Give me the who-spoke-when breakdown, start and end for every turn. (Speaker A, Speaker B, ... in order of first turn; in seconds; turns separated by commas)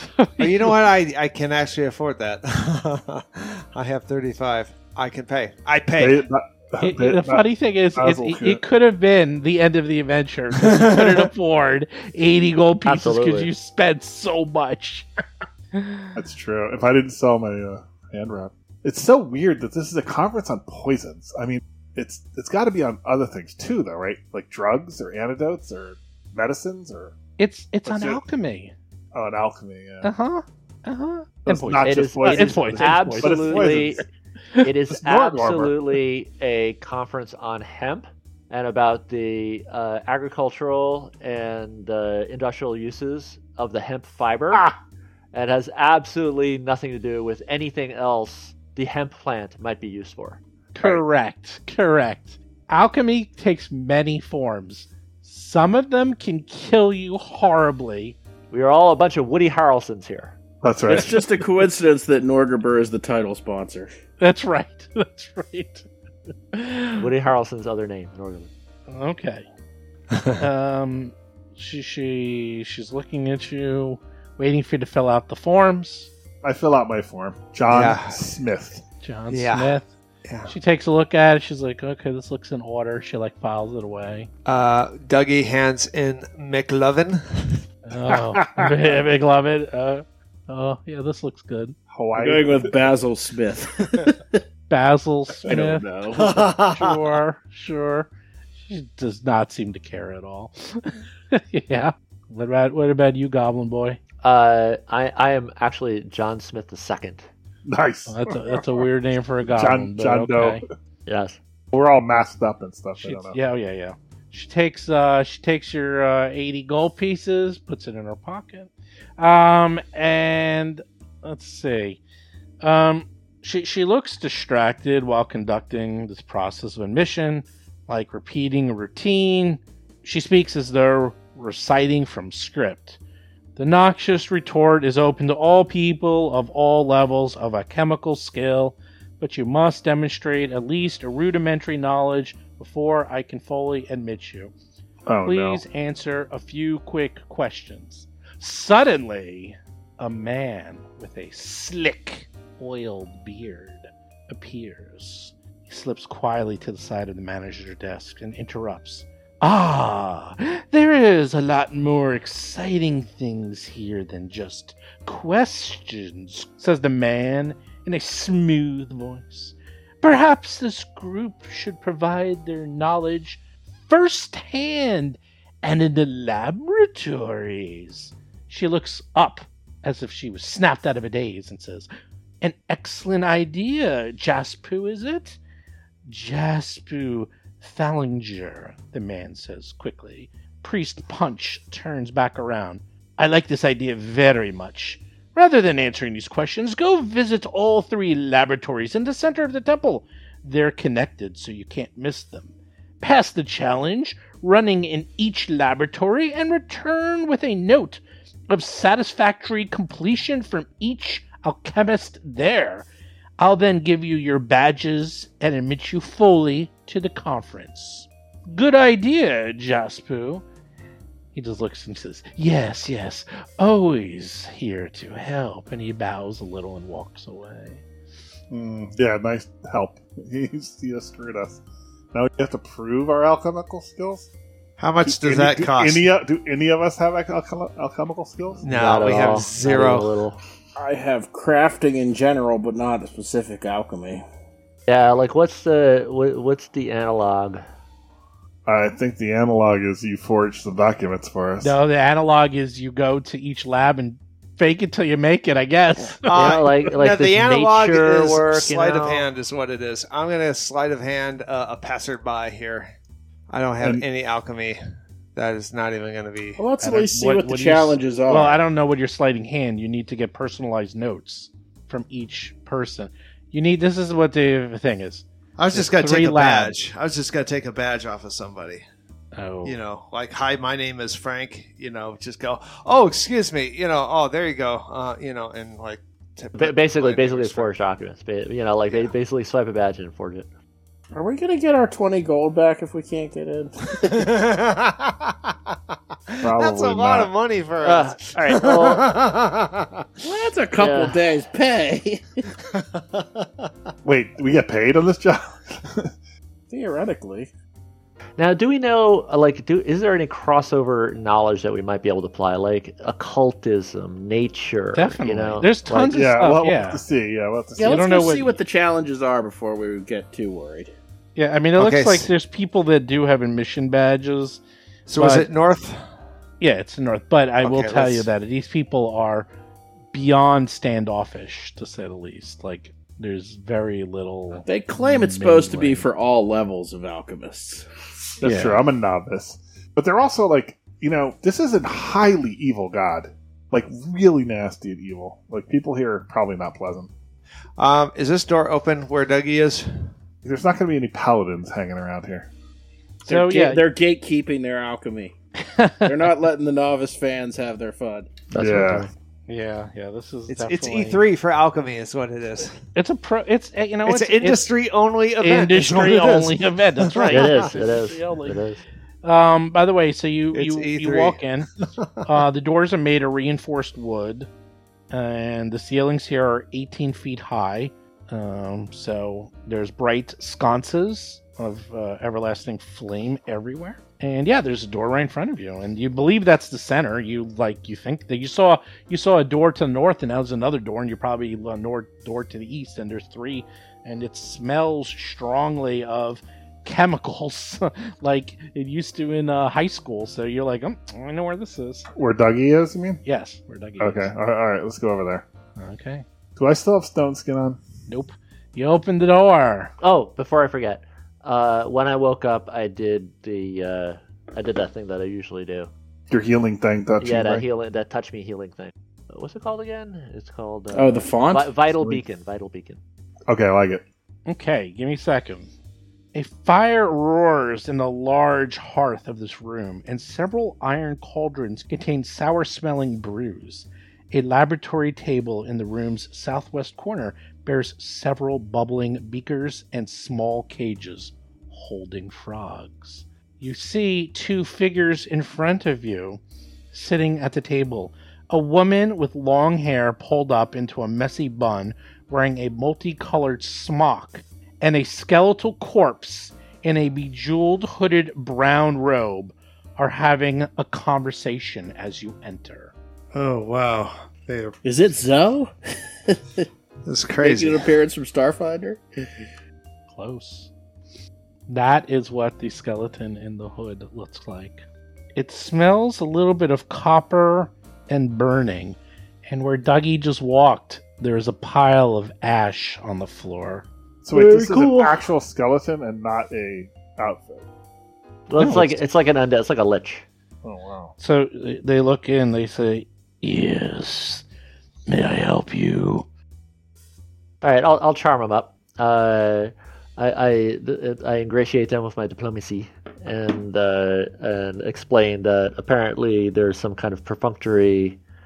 Speaker A: 0.2-0.7, Speaker B: 0.4-6.2, Speaker C: 6.0-8.6, Speaker A: 6.8-15.1, Speaker B: 10.6-11.3, Speaker D: 12.8-13.5, Speaker A: 15.7-16.1, Speaker C: 16.1-27.1, Speaker A: 27.4-28.7, Speaker C: 27.9-28.2, Speaker C: 29.1-30.1, Speaker A: 30.0-33.8, Speaker C: 31.4-34.0, Speaker D: 31.8-34.0, Speaker D: 34.6-44.6, Speaker C: 34.9-36.0, Speaker D: 45.3-50.4, Speaker A: 50.8-58.2, Speaker D: 58.5-60.3, Speaker C: 60.6-61.4, Speaker E: 60.9-63.9, Speaker A: 64.2-65.9, Speaker A: 66.5-67.0, Speaker D: 67.0-68.5, Speaker A: 68.9-69.5, Speaker A: 70.3-76.1, Speaker C: 76.4-78.8, Speaker B: 77.7-78.2, Speaker A: 79.0-79.9, Speaker B: 79.3-80.5, Speaker A: 80.5-84.3, Speaker B: 84.5-87.6, Speaker A: 87.9-91.8, Speaker C: 91.9-92.8, Speaker E: 92.1-94.4, Speaker A: 94.7-98.1, Speaker C: 95.5-95.8, Speaker E: 95.5-96.3, Speaker B: 96.1-96.9, Speaker A: 98.6-104.0, Speaker D: 104.2-107.2, Speaker C: 107.7-108.8, Speaker A: 108.1-110.6, Speaker C: 109.5-110.6, Speaker D: 111.0-111.4, Speaker C: 111.7-113.4, Speaker A: 113.0-122.0, Speaker A: 122.6-133.0, Speaker A: 133.6-144.5, Speaker C: 145.1-145.6, Speaker A: 145.2-181.9, Speaker A: 182.4-185.4, Speaker A: 186.1-212.9, Speaker A: 213.4-220.4, Speaker A: 221.3-227.8, Speaker C: 228.5-231.6, Speaker C: 232.1-234.3, Speaker B: 234.8-236.1, Speaker C: 235.0-238.6, Speaker B: 238.6-240.1, Speaker D: 238.7-240.4, Speaker E: 240.8-244.2, Speaker D: 244.9-247.6, Speaker C: 248.7-251.7, Speaker A: 251.6-256.6, Speaker D: 256.2-259.3, Speaker B: 256.3-262.9, Speaker B: 263.5-264.8, Speaker C: 263.8-264.0, Speaker B: 265.3-266.6, Speaker E: 266.6-268.6, Speaker A: 266.8-276.8, Speaker B: 275.6-278.8, Speaker A: 279.3-279.8, Speaker B: 279.6-287.7, Speaker D: 286.6-290.5, Speaker E: 291.1-294.2, Speaker B: 294.1-295.7, Speaker B: 296.3-300.1, Speaker C: 296.4-297.3, Speaker D: 297.8-299.0, Speaker E: 300.2-302.2, Speaker D: 300.8-301.2, Speaker B: 302.8-303.5, Speaker C: 304.0-306.1, Speaker E: 306.7-307.5, Speaker D: 308.4-316.3, Speaker A: 314.9-317.0, Speaker C: 316.1-318.0, Speaker E: 317.8-320.9, Speaker A: 317.8-318.6, Speaker A: 321.4-324.6, Speaker B: 321.8-322.3, Speaker B: 325.1-326.0, Speaker A: 325.1-325.5, Speaker A: 326.6-329.5, Speaker B: 327.6-328.3, Speaker A: 330.1-336.1, Speaker E: 334.5-337.9, Speaker A: 338.4-338.9, Speaker C: 338.4-347.1, Speaker B: 347.8-350.1, Speaker C: 350.4-352.5, Speaker E: 353.2-355.3, Speaker A: 353.2-353.8, Speaker A: 355.8-356.1, Speaker E: 356.0-358.4, Speaker D: 358.5-359.1, Speaker C: 358.5-359.1, Speaker A: 359.5-361.2, Speaker B: 360.5-362.8, Speaker A: 362.9-364.6, Speaker B: 364.1-367.7, Speaker A: 365.4-368.6, Speaker D: 367.3-368.8, Speaker A: 369.2-371.7, Speaker B: 370.5-372.2, Speaker A: 372.2-374.5, Speaker A: 375.1-402.1, Speaker C: 402.1-403.2, Speaker A: 403.2-404.3, Speaker C: 404.0-405.4, Speaker A: 405.8-406.2, Speaker C: 406.6-407.8, Speaker A: 408.1-409.9, Speaker D: 410.0-415.9, Speaker C: 416.3-417.6, Speaker D: 417.2-423.0, Speaker E: 420.9-421.8, Speaker C: 423.5-424.0, Speaker A: 424.5-425.7, Speaker A: 426.3-446.4, Speaker A: 446.9-462.9, Speaker B: 463.3-464.8, Speaker E: 464.8-465.7, Speaker E: 466.3-466.6, Speaker B: 467.1-467.9, Speaker E: 467.4-469.5, Speaker A: 470.1-470.7, Speaker A: 471.7-474.8, Speaker A: 475.4-483.9, Speaker C: 484.2-487.6, Speaker D: 484.4-485.0, Speaker D: 488.5-490.2, Speaker A: 488.6-489.0, Speaker C: 490.6-491.1, Speaker A: 491.2-494.4, Speaker A: 495.1-496.2, Speaker D: 497.6-508.2